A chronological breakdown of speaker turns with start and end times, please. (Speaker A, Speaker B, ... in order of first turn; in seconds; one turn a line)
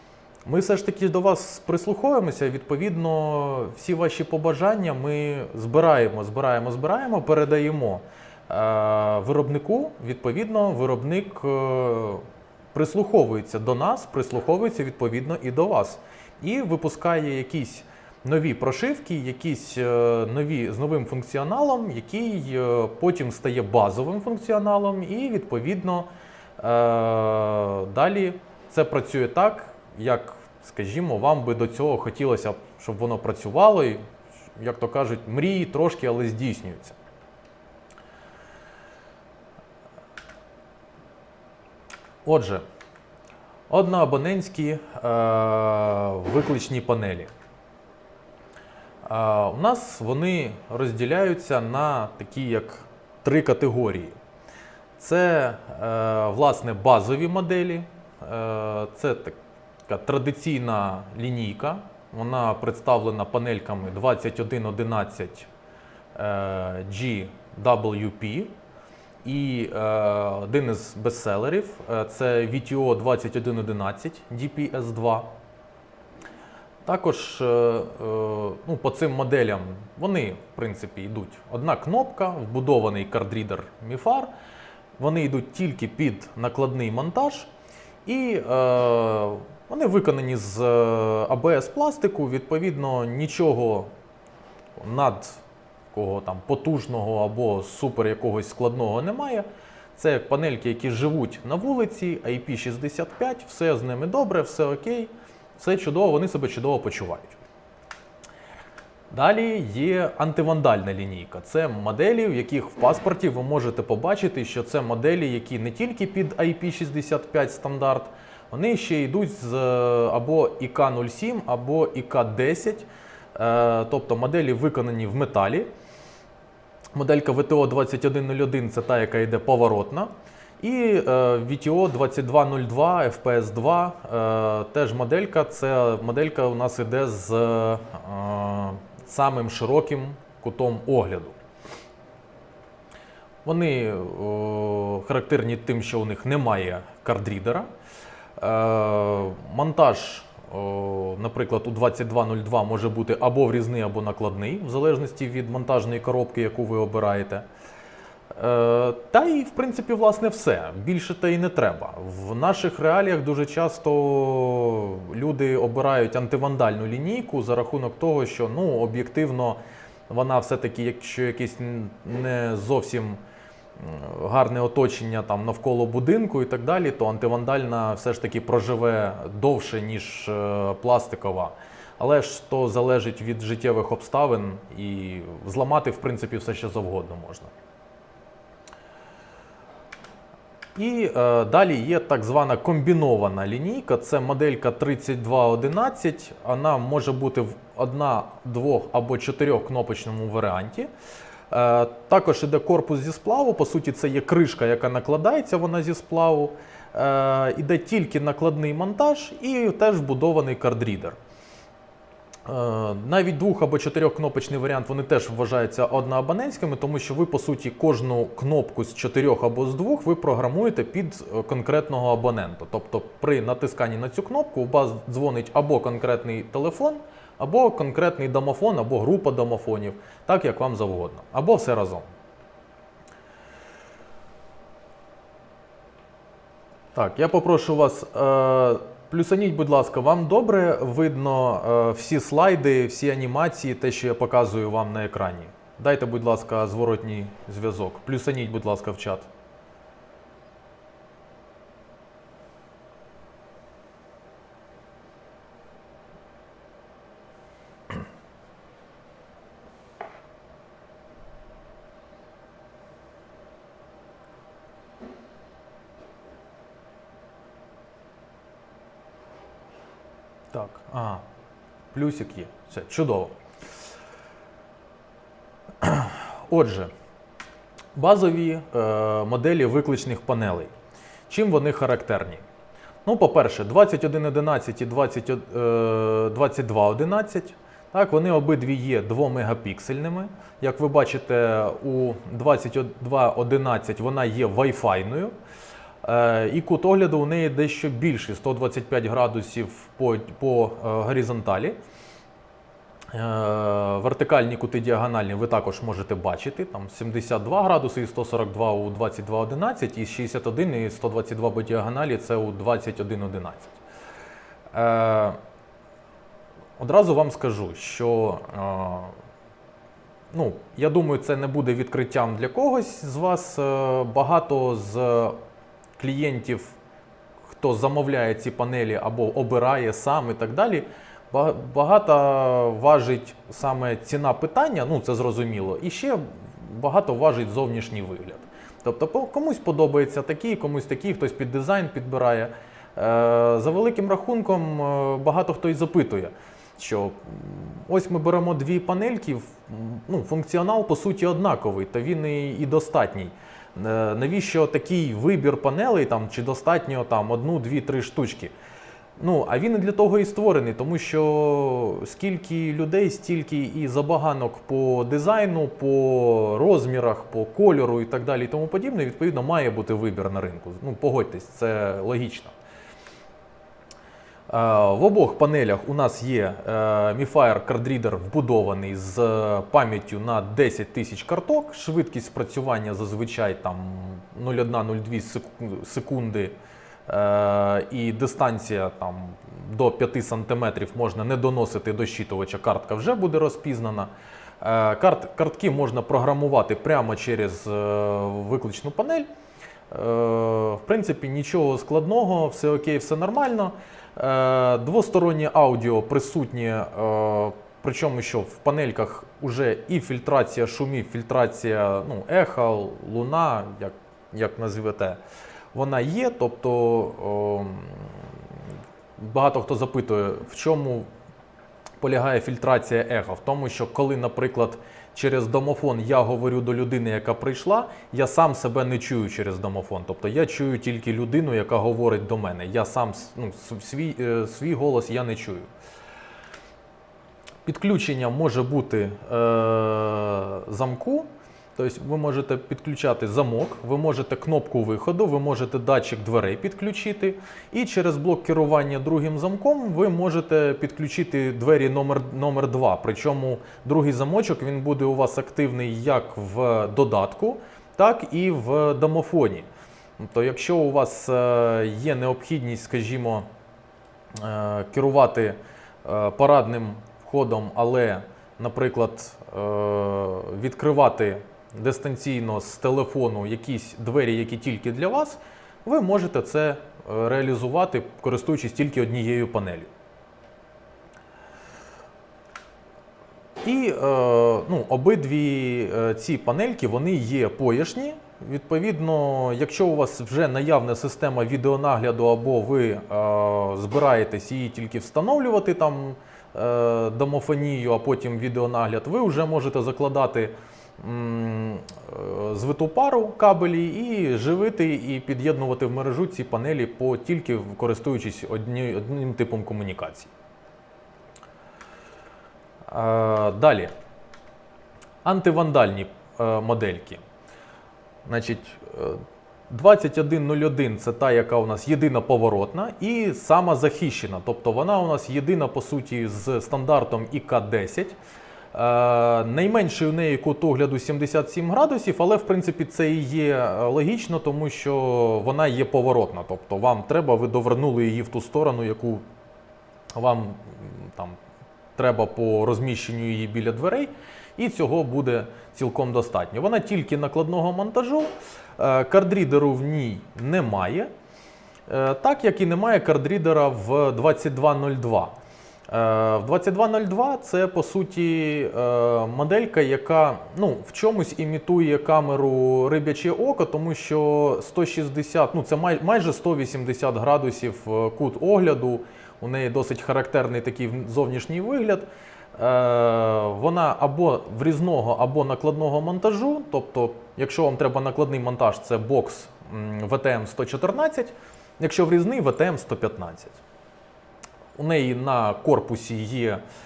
Speaker A: 0.5-26.1
Speaker A: 26.6-34.0
Speaker A: 34.6-37.0
Speaker A: 42.2-42.6
Speaker A: 43.7-47.3
Speaker A: 49.0-54.1
Speaker A: 55.0-59.4
Speaker A: 59.9-65.5
Speaker A: 66.1-68.5
Speaker A: 69.2-75.3
Speaker A: 76.8-84.3
Speaker A: 85.0-87.5
Speaker A: 88.0-93.9
Speaker A: 94.8-95.4
Speaker A: 95.9-107.4
Speaker A: 109.1-125.7
Speaker A: 126.9-141.3
Speaker A: 143.4-147.7
Speaker A: 148.4-157.4
Speaker A: 158.3-173.2
Speaker A: 173.8-187.5
Speaker A: 190.7-200.9
Speaker A: 201.5-211.2
Speaker A: 212.4-232.1
Speaker A: 236.9-249.3
Speaker A: 270.5-271.2
Speaker A: 271.9-273.4
Speaker A: 275.8-276.9
Speaker A: 277.9-280.7
Speaker A: 281.3-282.4
Speaker A: 283.0-295.3
Speaker A: 296.0-301.8
Speaker A: 303.1-313.8
Speaker A: 314.7-315.4
Speaker A: 316.8-319.1
Speaker A: 320.3-325.4
Speaker A: 326.0-326.8
Speaker A: 327.5-358.5
Speaker A: 359.2-372.5
Speaker A: 374.5-386.5
Speaker A: 387.1-399.3
Speaker A: 399.9-415.2
Speaker A: 415.7-418.3
Speaker A: 419.2-421.1
Speaker A: 422.0-435.7
Speaker A: 437.6-459.7
Speaker A: 460.2-463.4
Speaker A: 464.4-479.9
Speaker A: 483.6-510.3
Speaker A: 512.9-513.9
Speaker A: 515.2-517.2
Speaker A: 518.2-528.1
Speaker A: 528.7-539.2
Speaker A: 540.1-541.4
Speaker A: 542.0-551.1
Speaker A: 551.9-555.4
Speaker A: 555.9-583.6
Speaker A: 584.8-586.6